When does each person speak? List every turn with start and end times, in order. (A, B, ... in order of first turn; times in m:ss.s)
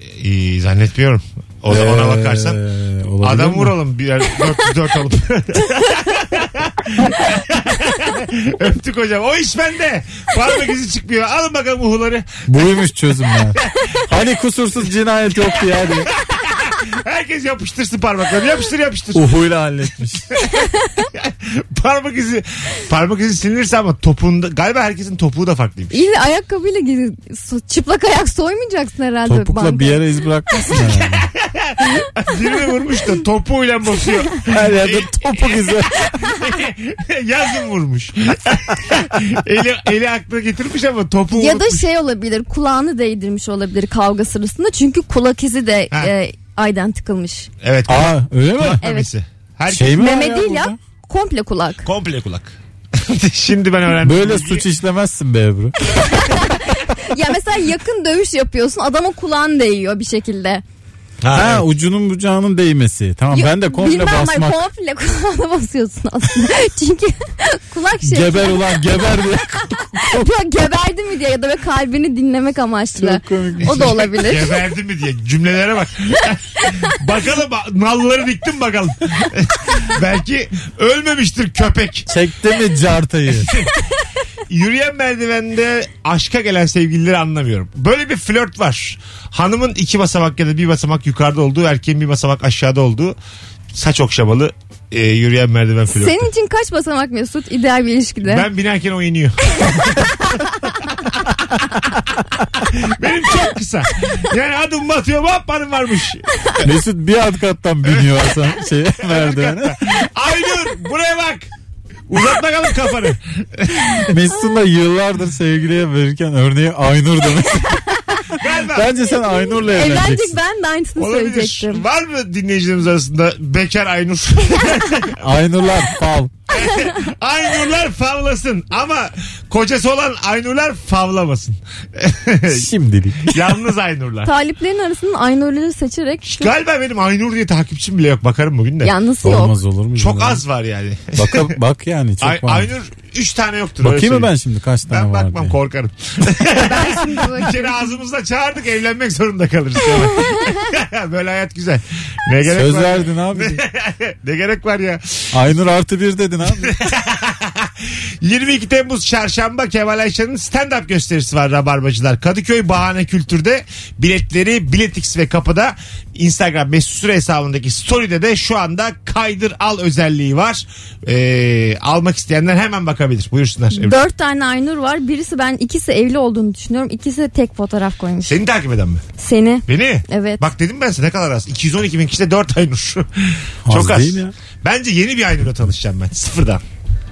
0:00.1-0:02.6 A
0:01.7-0:03.8 B
0:03.2-0:12.3 A
0:12.5-0:16.1 B
0:13.6-0:14.0 A
0:16.2-0:19.3 A
0:19.1-0:20.2 B
0:20.3-0:26.1 A
0:25.9-0:30.0 C
0:29.2-0:31.3 B
0:31.2-0:41.8 A
0:34.5-0:36.3 B
0:41.3-0:47.5 C
0:47.6-0:50.0 A
0:47.9-0:48.8 B
0:48.8-0:49.1 C
0:49.7-0:50.8 B
0:50.0-0:51.9 C
0:51.8-0:54.6 A
0:54.0-0:55.8 B
0:56.0-1:00.6 C
1:01.2-1:01.6 A
1:01.3-1:04.6 B
1:03.3-1:08.6 C
1:08.0-1:10.2 B
1:10.0-1:14.6 C
1:13.0-1:14.1 B
1:13.8-1:22.1 A
1:22.1-1:23.5 B
1:23.4-1:23.7 A
1:24.5-1:33.2 A
1:33.7-1:36.3 A
1:35.9-1:38.4 C
1:38.2-1:40.4 A
1:41.3-1:41.7 A
1:42.6-1:46.6 A
1:46.6-1:49.8 B
1:47.9-1:48.4 A
1:49.0-1:51.5 A
1:52.1-1:54.1 A
1:54.1-2:00.4 B
1:58.4-1:59.0 A
1:59.3-2:01.8 C
2:01.0-2:05.2 A
2:05.2-2:06.3 B
2:06.5-2:12.7 A
2:12.5-2:13.6 B
2:13.2-2:14.3 A
2:14.2-2:16.5 C
2:16.3-2:18.9 A
2:18.8-2:19.6 C
2:19.2-2:20.4 B
2:20.0-2:21.5 A
2:21.2-2:22.7 B
2:22.2-2:24.3 A
2:23.8-2:25.6 B
2:24.9-2:35.3 A
2:26.5-2:27.7 C
2:32.4-2:33.6 B
2:35.3-2:36.7 B
2:36.6-2:54.0 A
2:53.7-2:58.4 C
2:58.2-2:59.0 A
2:59.2-3:00.4 C
2:59.7-3:06.6 A
3:03.6-3:04.3 B